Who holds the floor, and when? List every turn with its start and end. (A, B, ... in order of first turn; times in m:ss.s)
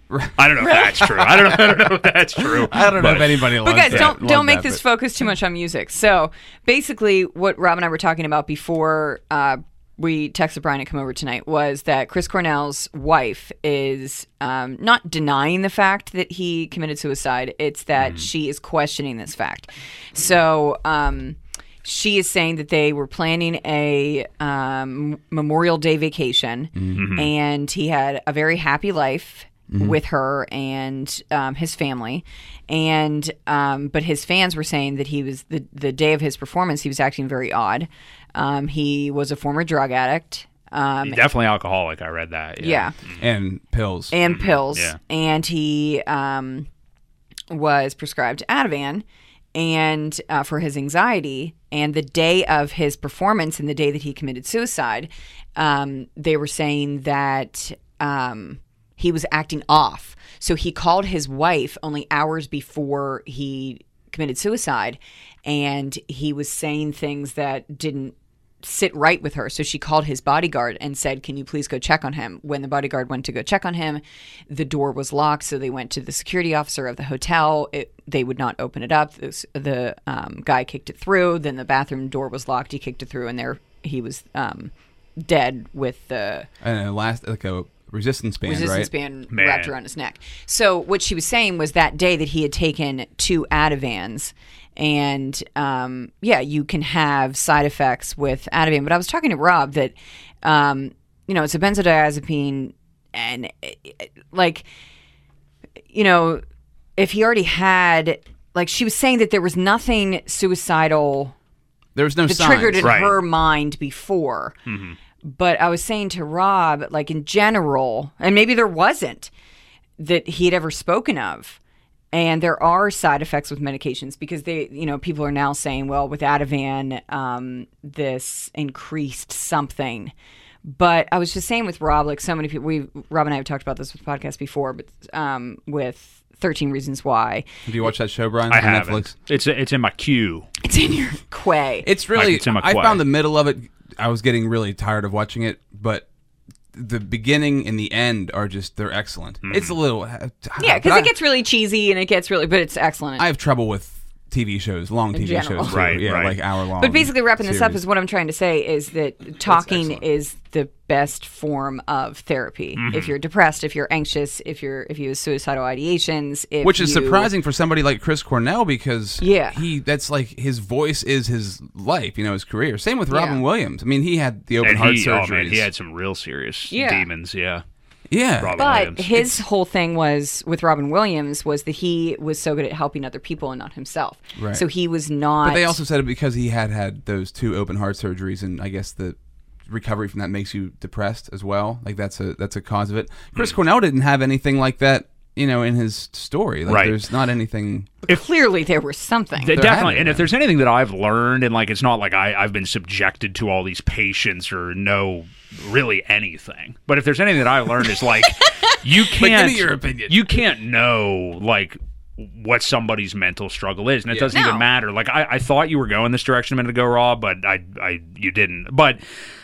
0:00.1-0:00.4 A
0:00.4-0:04.1 B
0:01.0-0:01.5 A
0:02.4-0:04.8 A
0:03.6-0:41.2 C
0:18.0-0:18.3 B
0:26.7-0:27.0 A
0:27.0-0:27.3 B
0:29.7-0:30.0 A
0:41.0-0:43.2 B
0:42.6-0:42.9 C
0:43.2-0:44.1 A
0:44.1-0:46.7 C
0:44.2-0:45.0 B
0:47.5-1:26.5 C
1:26.6-1:28.9 A
1:28.4-1:44.7 C
1:29.3-1:29.7 B
1:45.9-1:46.4 C
1:47.0-1:51.3 C
1:52.0-1:53.0 A
1:52.3-1:54.6 C
1:52.8-1:53.1 B
1:54.7-1:55.0 B
1:55.2-1:59.3 C
2:00.0-2:01.6 C
2:02.1-2:10.1 C
2:10.6-2:17.4 C
2:17.6-2:19.1 A
2:18.5-2:20.5 B
2:20.6-2:21.9 C
2:21.8-2:26.0 A
2:22.1-2:23.0 B
2:26.7-2:31.1 A
2:29.4-2:29.8 B
2:30.6-2:33.3 C
2:33.2-2:37.8 A
2:35.1-2:36.0 C
2:35.6-2:36.4 B
2:36.8-2:47.3 C
2:39.4-2:40.0 A
2:42.8-2:43.1 B
2:46.6-2:55.7 A
2:49.2-2:49.6 C
2:53.1-2:53.4 C
2:54.6-2:57.6 B
2:56.7-2:57.1 C
2:58.1-2:58.6 A
2:58.4-2:59.3 B
2:58.6-3:05.8 C
3:04.4-3:04.6 A
3:05.4-3:17.9 A
3:16.7-3:17.0 B
3:18.1-3:19.6 C
3:19.4-3:39.0 B
3:19.5-3:20.3 A
3:29.2-3:30.3 A
3:34.3-3:34.6 C